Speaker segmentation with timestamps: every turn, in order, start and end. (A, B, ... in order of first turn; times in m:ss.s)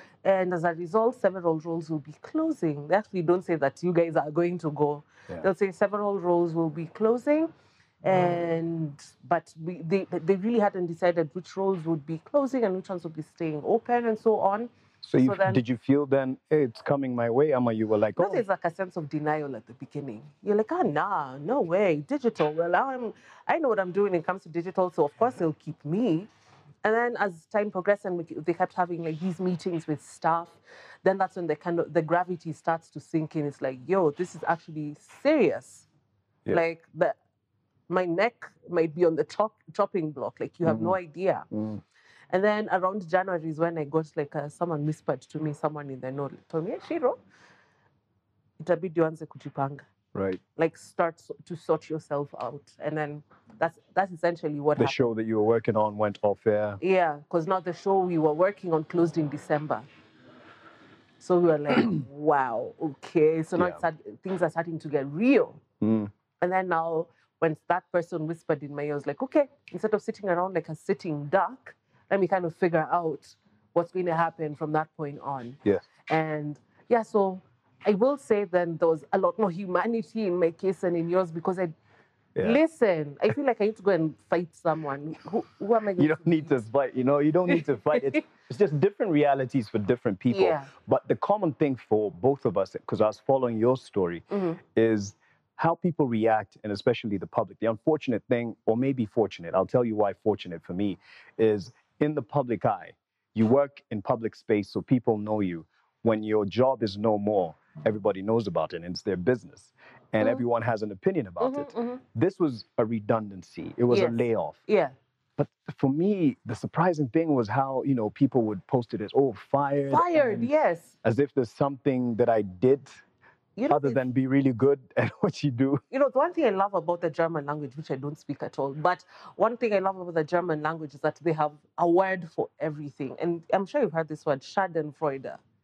0:00.2-0:07.5 A
0:08.0-0:15.6 A
0:15.0-0:18.4 B
0:18.2-0:26.3 A
0:26.8-0:35.9 A
0:36.5-0:37.2 A
0:37.9-0:41.5 A
0:40.6-0:41.0 B
0:41.5-0:41.8 B
0:42.3-0:47.2 A
0:48.6-0:49.8 A
0:50.1-0:50.4 B
0:50.6-0:55.1 A
0:54.8-0:56.8 B
0:56.8-0:59.8 A
1:01.2-1:05.6 A
1:05.8-1:06.1 B
1:06.4-1:21.7 A
1:22.4-1:26.5 A
1:26.0-1:54.6 B
1:27.5-1:28.2 A
1:30.3-1:30.7 A
1:34.3-1:34.6 A
1:51.4-1:52.0 A
1:53.9-1:54.9 A
1:55.4-2:00.5 B
1:59.9-2:00.9 A
2:01.0-2:03.0 B
2:03.6-2:04.0 A
2:03.7-2:05.8 B
2:05.9-2:15.4 A